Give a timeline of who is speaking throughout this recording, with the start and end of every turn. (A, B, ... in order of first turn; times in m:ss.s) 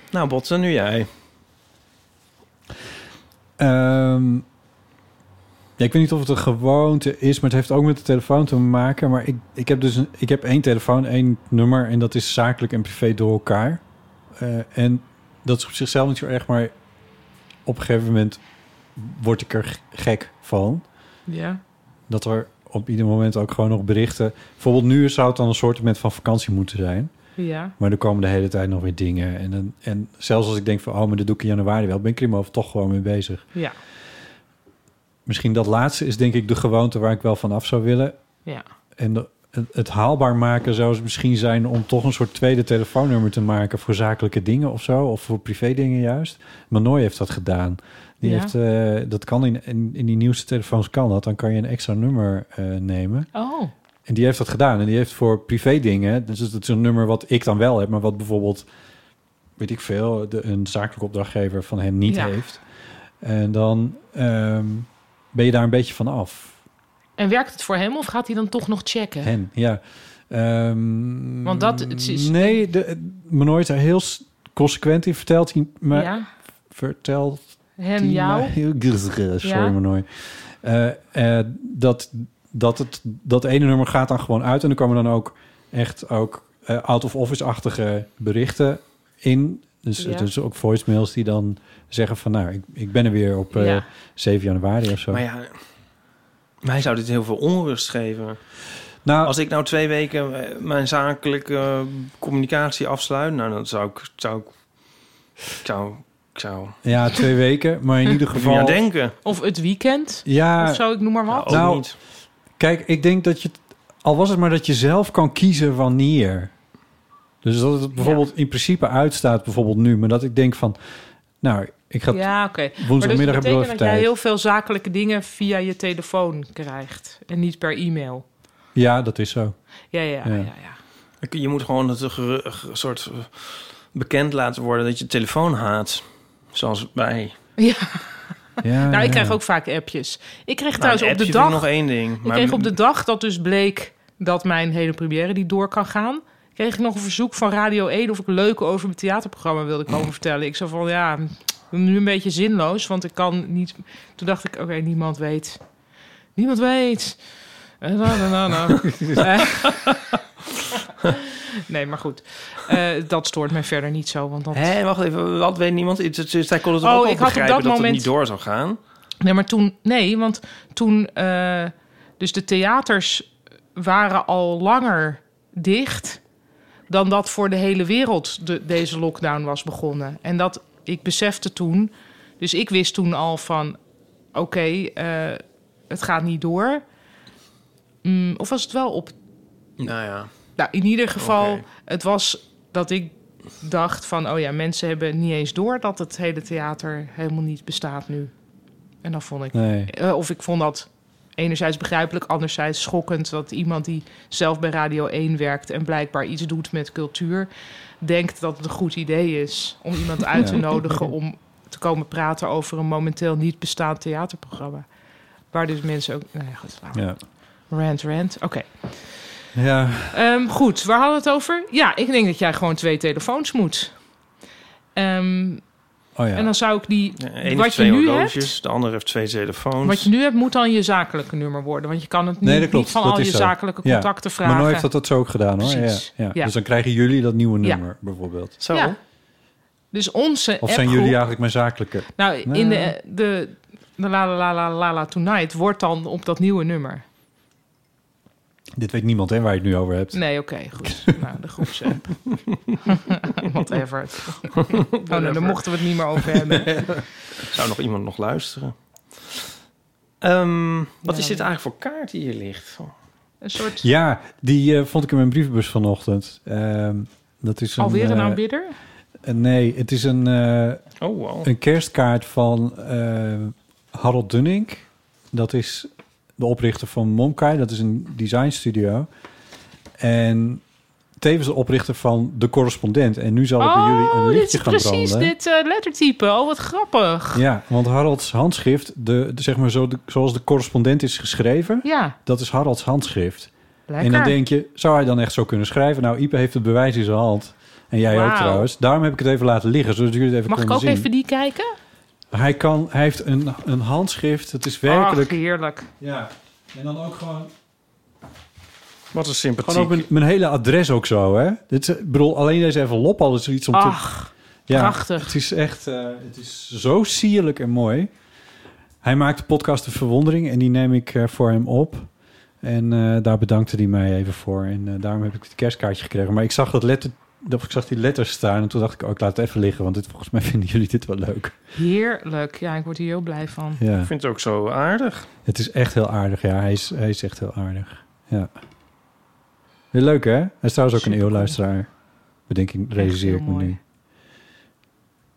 0:00.1-0:01.1 A
0:03.6-0:04.4 B
0:05.8-0:13.8 B
0:14.4-0:16.7 B
0:17.7-0:18.4 B
0:19.0-0:20.8 B
0:21.3-0:21.6 C
0:22.1-0:27.1 B
0:27.4-0:27.7 C
0:27.8-0:33.4 B
0:35.3-0:38.2 B
0:39.0-0:53.3 B
0:48.2-0:48.5 C
0:53.3-0:53.7 C
0:54.1-0:58.7 B
0:59.6-1:02.6 B
1:02.1-1:02.4 C
1:03.2-1:06.6 B
1:07.2-1:09.3 C
1:09.2-1:16.2 B
1:11.4-1:12.6 C
1:15.9-1:16.3 C
1:16.7-1:17.4 B
1:17.8-1:18.5 C
1:18.0-1:35.2 B
1:19.4-1:19.7 C
1:30.0-1:30.3 C
1:33.5-1:33.8 C
1:35.1-1:35.6 A
1:36.6-1:38.4 A
1:39.0-1:39.3 B
1:39.2-1:44.5 A
1:45.6-1:46.7 A
1:46.8-1:48.8 B
1:48.3-1:49.2 A
1:49.2-1:51.6 C
1:50.3-1:51.9 B
1:51.3-1:52.0 A
1:52.6-1:56.5 B
1:57.4-2:00.8 B
1:58.0-1:58.2 C
2:01.4-2:04.1 B
2:02.1-2:08.2 C
2:08.7-2:09.6 B
2:09.9-2:10.8 C
2:10.2-2:10.5 B
2:11.2-2:17.4 A
2:17.6-2:18.2 C
2:18.6-2:19.4 B
2:18.9-2:35.6 C
2:20.8-2:22.7 A
2:36.4-2:37.3 C
2:37.8-2:40.0 C
2:41.7-2:44.7 C
2:44.5-2:48.8 A
2:46.8-2:48.1 C
2:49.2-2:56.2 C
2:56.9-3:03.8 C
3:04.3-3:06.8 C
3:08.0-3:09.1 C
3:09.8-3:10.3 A
3:10.6-3:18.3 C
3:11.2-3:11.6 A
3:19.0-3:27.5 C
3:19.5-3:19.9 B
3:28.0-3:34.8 C
3:30.4-3:30.6 B
3:35.5-3:37.0 C
3:36.9-3:37.2 B
3:37.7-3:39.2 C
3:39.6-3:40.2 B
3:40.1-3:44.0 C
3:45.0-3:45.6 C
3:46.2-3:46.5 B
3:46.4-3:48.5 C
3:47.2-3:50.1 A
3:49.8-3:54.9 C
3:52.4-3:58.5 B
3:55.6-3:56.5 C
3:58.6-3:59.0 A
3:58.7-3:59.0 C
3:59.9-4:01.2 C
4:00.6-4:02.9 B
4:02.2-4:07.0 C
4:08.8-4:11.0 B
4:10.1-4:12.1 C
4:12.9-4:16.8 C
4:14.6-4:15.6 A
4:16.4-4:17.0 B
4:17.5-4:19.4 A
4:20.2-4:22.9 A
4:21.0-4:21.4 C
4:23.4-4:23.9 C
4:23.8-4:28.4 B
4:27.8-4:28.7 C
4:29.2-4:30.8 B
4:31.0-4:31.5 A
4:31.4-4:39.1 B
4:40.0-4:40.6 B
4:41.2-4:45.3 B
4:43.6-4:47.4 C
4:47.3-5:01.1 B
4:51.8-4:52.2 C
4:53.9-4:54.4 C
4:58.1-4:58.7 C
5:00.5-5:01.7 C
5:02.3-5:05.4 B
5:04.9-5:05.9 C
5:06.0-5:07.5 B
5:09.1-5:10.1 A
5:09.6-5:14.0 B
5:13.7-5:15.3 C
5:14.7-5:18.1 B
5:19.0-5:22.1 B
5:22.6-5:31.6 B
5:31.7-5:33.8 C
5:33.8-5:34.1 B
5:34.0-5:35.3 A
5:35.4-5:38.5 B
5:39.9-5:41.9 B
5:41.0-5:41.6 C
5:42.5-5:43.8 B
5:43.0-5:43.8 C